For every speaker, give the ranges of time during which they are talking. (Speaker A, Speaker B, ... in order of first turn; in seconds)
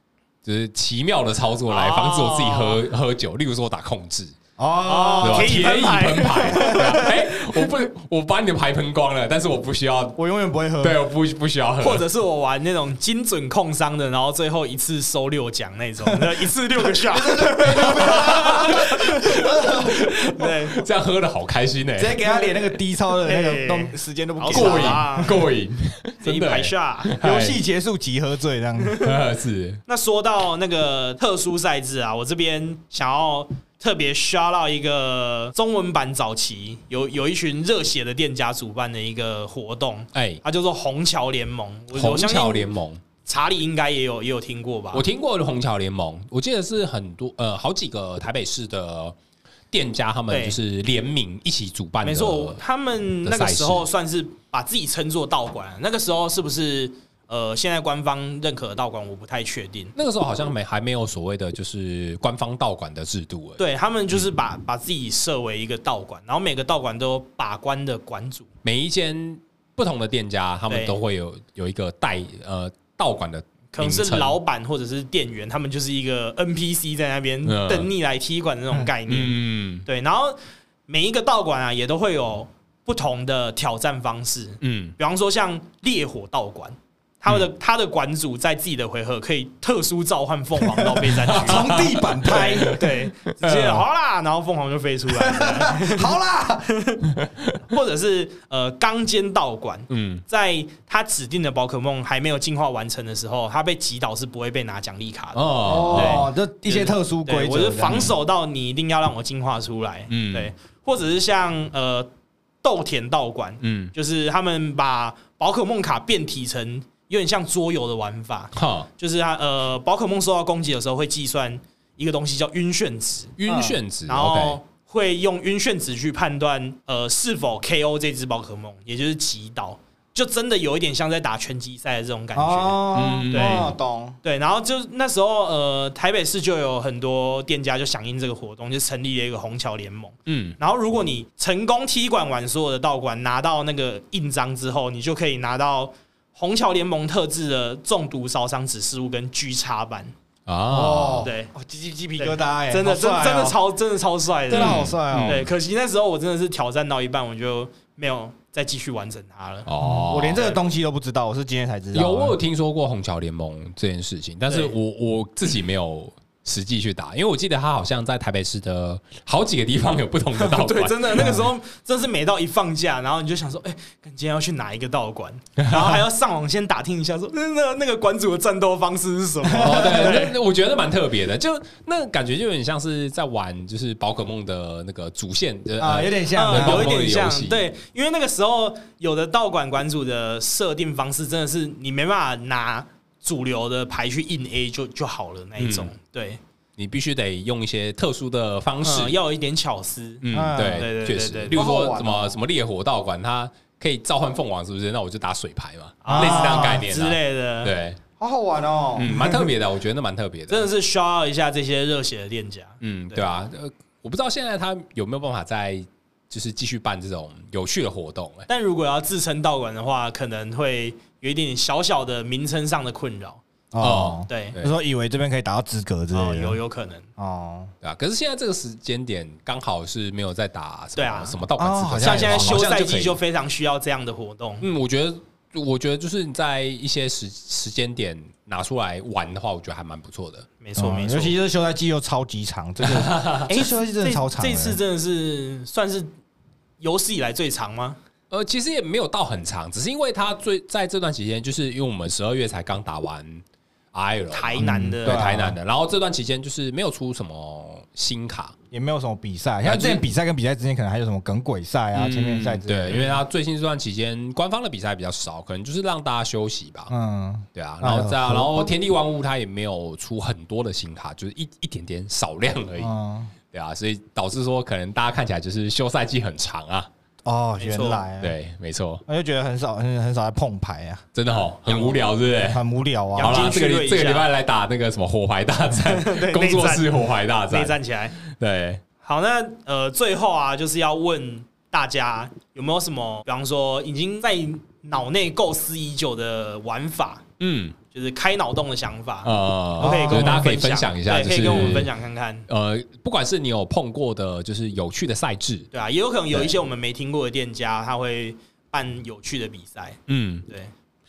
Speaker A: 0.4-4.3, 5.2-10.2, 10.8-12.1, 17.7-22.2, 24.5-27.6, 29.0-29.8, 40.1-40.4, 41.9-43.0, 44.9-49.2, 49.7-52.6, 53.2-53.9, 60.0-63.6, 68.6-74.4, 77.5-77.9, 79.1-79.9, 84.6-85.0, 91.0-93.8, 99.9-100.2, 105.3-106.3, 110.1-110.5, 113.6-113.9, 118.5-118.9, 123.4-124.6, 132.9-133.7, 140.3-140.6, 150.5-151.3, 154.5-155.5, 159.7-160.5, 161.9-171.3, 175.6-176.0, 179.6-187.7, 195.6-195.9, 196.8-199.2, 200.2-208.0, 209.0-210.7, 212.8-218.5, 223.8-224.8, 227.8-233.2, 234.6-240.5, 242.8-243.4, 248.3-258.5, 259.6-260.0, 261.9-266.9, 267.6-272.9, 273.5-276.9, 278.2-279.0, 281.1-282.6, 283.2-288.8, 297.4-297.8, 299.2-301.9, 302.5-305.7, 310.1-310.5
Speaker B: 1.7-2.8, 4.8-7.6, 11.8-20.8, 23.2-25.4, 26.2-27.1, 29.9-42.7, 43.2-45.1, 50.3-50.6, 52.0-59.9, 63.6-68.5, 70.7-71.0, 73.7-96.2, 96.7-97.1, 97.7-112.1, 112.6-123.3, 124.1-133.7, 134.2-150.1, 151.2-151.5, 152.2-159.7, 170.4-180.3, 186.3-196.4, 198.8-201.6, 206.0-207.7, 209.0-209.4, 210.5-213.3, 218.5-223.4, 224.3-224.6, 226.1-227.1, 231.0-231.4, 232.0-234.7, 240.6-241.3, 243.5-246.1, 246.8-248.0, 254.3-255.3, 277.6-278.0, 283.2-284.3, 285.8-286.9, 287.5-288.1, 289.0-297.2, 297.9-302.5, 305.7-310.7
Speaker C: 4.6-5.7, 6.5-7.1, 10.2-11.0, 17.0-20.1, 22.0-25.4, 27.2-29.0, 91.3-92.8, 95.1-96.7, 105.7-108.1, 123.5-123.8, 132.3-134.2, 150.7-153.6, 154.5-155.5, 159.8-162.4, 171.1-171.5, 179.4-180.3, 185.8-186.9, 200.3-200.9, 201.5-202.4, 206.1-206.9, 208.2-209.1, 223.7-226.6, 227.2-227.7, 231.6-232.7, 240.8-244.8, 254.6-255.6, 258.7-263.2, 266.9-268.7, 272.8-273.3, 277.3-278.4, 279.1-281.1, 281.7-283.6, 299.8-300.5